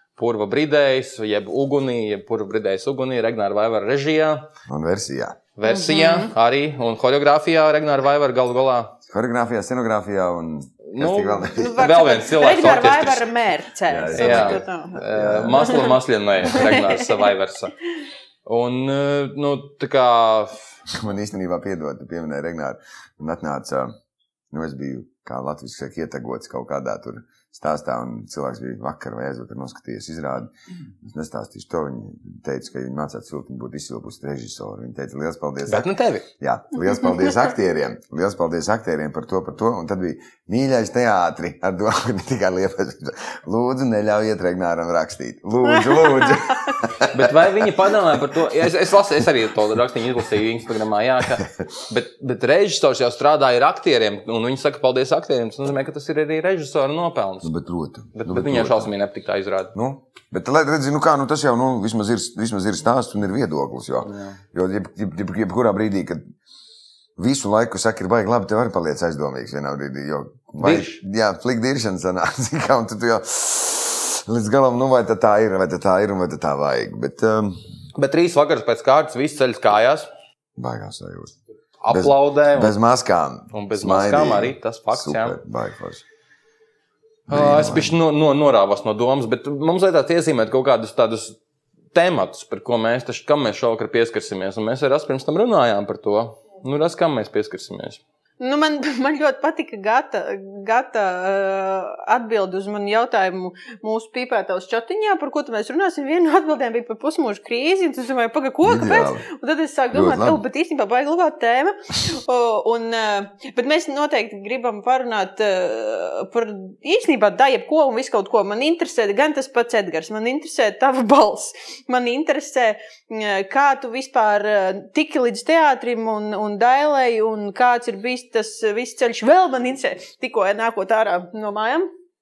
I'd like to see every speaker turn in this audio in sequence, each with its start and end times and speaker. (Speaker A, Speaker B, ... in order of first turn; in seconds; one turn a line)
Speaker A: 0.2-4.5
Speaker B: 4.7-5.4
Speaker A: 5.5-8.9
Speaker C: 5.7-6.3
Speaker B: 9.1-11.9
Speaker A: 10.9-13.3
Speaker C: 11.5-15.0
Speaker B: 13.9-16.7
Speaker A: 14.1-17.8
Speaker C: 16.5-17.0
Speaker A: 18.4-20.6
Speaker B: 20.9-23.9
Speaker B: 24.5-48.7
Speaker A: 35.7-36.2
Speaker C: 45.8-46.8
Speaker A: 47.1-57.5
Speaker B: 57.4-58.9
Speaker A: 58.1-59.7
Speaker B: 59.7-66.2
Speaker A: 64.0-64.4
Speaker B: 67.2-77.6
Speaker A: 70.6-71.0
Speaker A: 78.0-80.1
Speaker B: 80.6-81.3
Speaker A: 81.8-82.7
Speaker B: 81.9-86.0
Speaker A: 83.5-85.4
Speaker B: 87.3-88.0
Speaker A: 87.3-91.4
Speaker A: 91.9-98.0
Speaker C: 98.4-131.9
Speaker B: 108.6-109.2
Speaker B: 109.9-110.4